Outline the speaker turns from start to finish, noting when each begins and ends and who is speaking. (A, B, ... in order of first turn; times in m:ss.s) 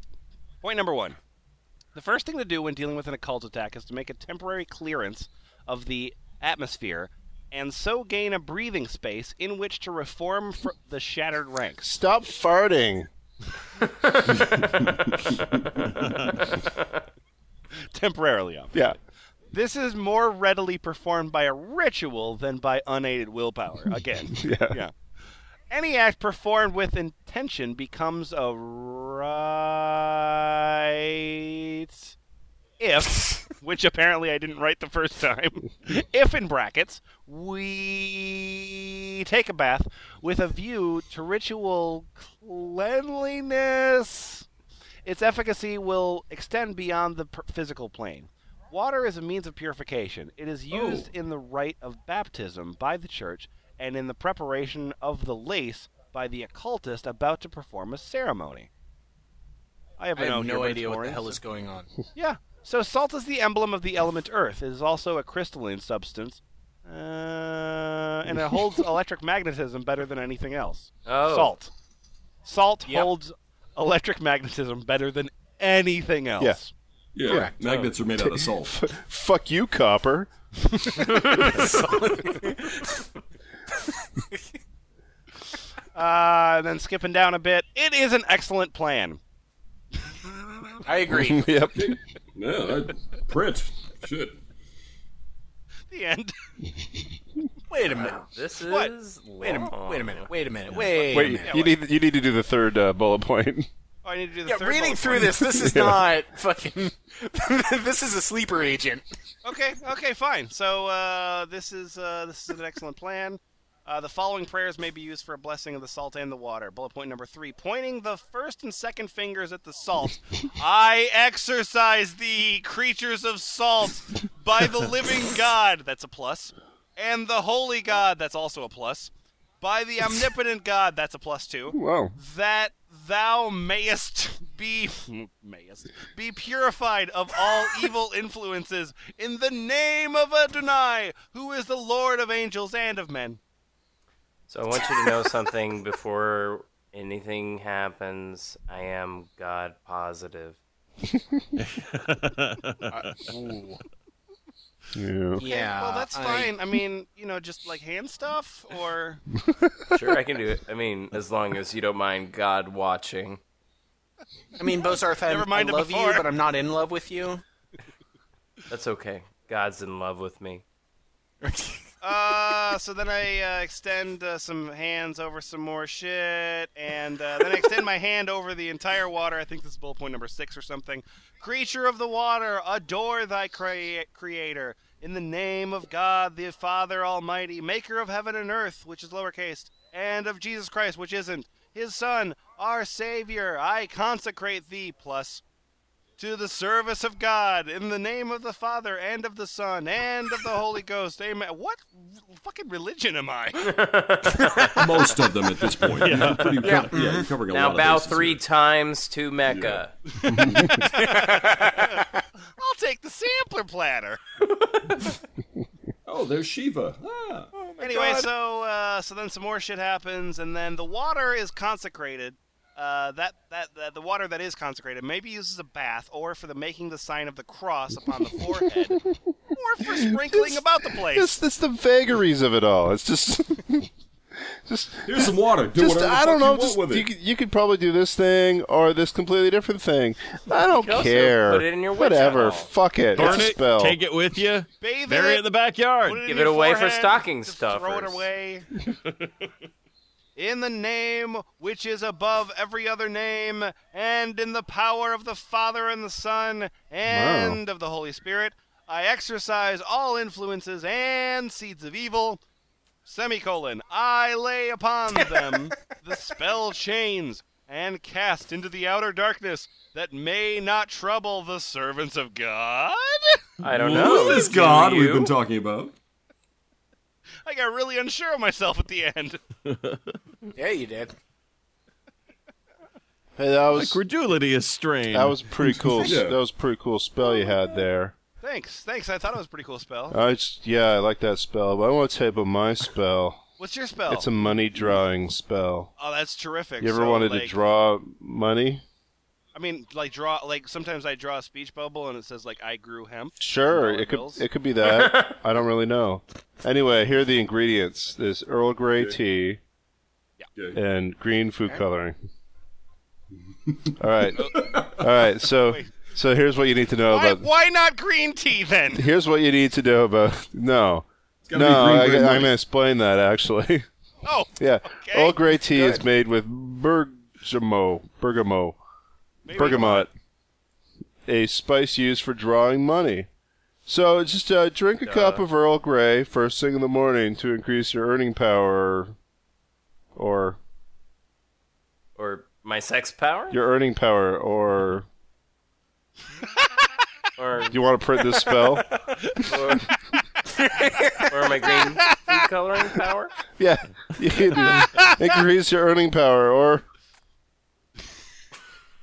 0:00.6-0:01.2 A
0:01.9-0:11.9 A
0:11.8-0:13.1 B
0:14.0-0:14.4 C
0:14.3-0:15.8 D
0:17.9-0:19.0 A
0:19.5-0:24.9 A
0:24.3-0:24.8 B
0:25.7-0:32.2 A
0:32.8-0:44.5 A
0:45.1-0:58.7 A
0:50.8-0:51.1 D
1:00.0-1:01.4 A
1:00.2-1:01.9 E
1:02.1-1:11.7 A
1:11.1-1:11.5 C
1:12.4-1:16.7 A
1:17.2-1:18.8 D
1:17.3-1:17.5 E
1:17.6-1:17.9 C
1:18.2-1:20.3 B
1:21.0-1:22.3 C
1:21.4-1:23.0 E
1:25.9-1:29.2 A
1:30.3-1:30.8 A
1:30.8-1:31.5 E
1:31.1-1:32.0 B
1:31.7-1:34.4 D
1:35.9-1:36.3 A
1:37.7-1:38.2 E
1:37.8-1:40.8 C
1:38.7-1:38.9 A
1:39.4-1:41.6 E
1:40.8-1:41.8 A
1:41.1-1:43.7 B
1:44.0-1:45.4 A
1:44.4-1:49.0 E
1:45.2-1:46.1 B
1:49.4-2:23.4 A
2:11.7-2:12.2 B
2:24.5-2:30.6 C
2:31.6-2:33.1 F
2:32.9-2:33.8 E
2:34.9-2:35.4 B
2:35.4-2:36.5 E
2:35.4-2:39.2 A
2:39.9-2:43.4 C
2:44.6-2:47.4 E
2:45.2-2:46.3 A
2:48.7-2:50.6 C
2:51.4-2:51.9 E
2:52.0-3:15.4 A
3:16.2-3:23.8 A
3:23.6-3:24.8 C
3:24.7-3:28.4 D
3:26.0-3:26.8 F
3:26.6-3:27.3 E
3:27.5-3:29.9 C
3:29.5-3:30.9 D
3:30.7-3:32.1 E
3:31.0-3:32.0 A
3:32.6-3:34.2 A
3:36.1-3:37.5 D
3:37.8-3:51.4 A
3:38.0-3:38.2 E
3:49.9-3:53.9 B
3:54.4-4:04.0 B
3:55.0-3:57.1 D
4:00.8-4:02.7 C
4:03.2-4:06.2 F
4:04.8-4:05.4 A
4:06.0-4:08.7 A
4:06.2-4:08.3 C
4:10.4-4:22.4 A
4:17.0-4:17.6 B
4:23.1-4:33.5 A
4:25.2-4:26.0 E
4:33.6-4:35.4 C
4:33.6-4:36.0 D
4:37.4-4:39.4 A
4:39.7-4:40.0 F
4:40.6-4:41.1 E
4:43.4-4:44.0 B
4:43.7-4:45.5 F
4:45.1-4:48.2 B
4:45.9-4:46.4 D
4:48.4-4:50.2 A
4:50.1-4:53.4 B
4:53.6-4:54.3 A
4:54.1-4:55.9 B
4:56.0-4:57.5 A
4:56.8-4:58.8 B
4:59.5-5:04.4 A
5:03.4-5:09.6 B
5:04.8-5:05.4 C
5:10.6-5:10.8 D
5:10.7-5:12.2 B
5:13.7-5:15.1 D
5:14.0-5:17.5 B
5:15.6-5:16.0 A
5:17.1-5:19.1 A
5:19.0-5:23.9 B
5:21.4-5:22.5 D
5:24.2-5:26.0 A
5:24.6-5:28.8 B
5:29.5-5:30.1 A
5:29.5-5:30.1 B
5:31.3-5:33.3 B
5:33.9-5:39.1 B
5:35.0-5:35.5 C
5:40.2-5:40.6 B
5:42.2-5:43.6 C
5:43.5-5:45.1 B
5:47.4-5:47.8 C
5:47.7-5:48.9 B
5:49.4-5:49.9 C
5:51.2-5:53.3 C
5:53.6-5:56.8 B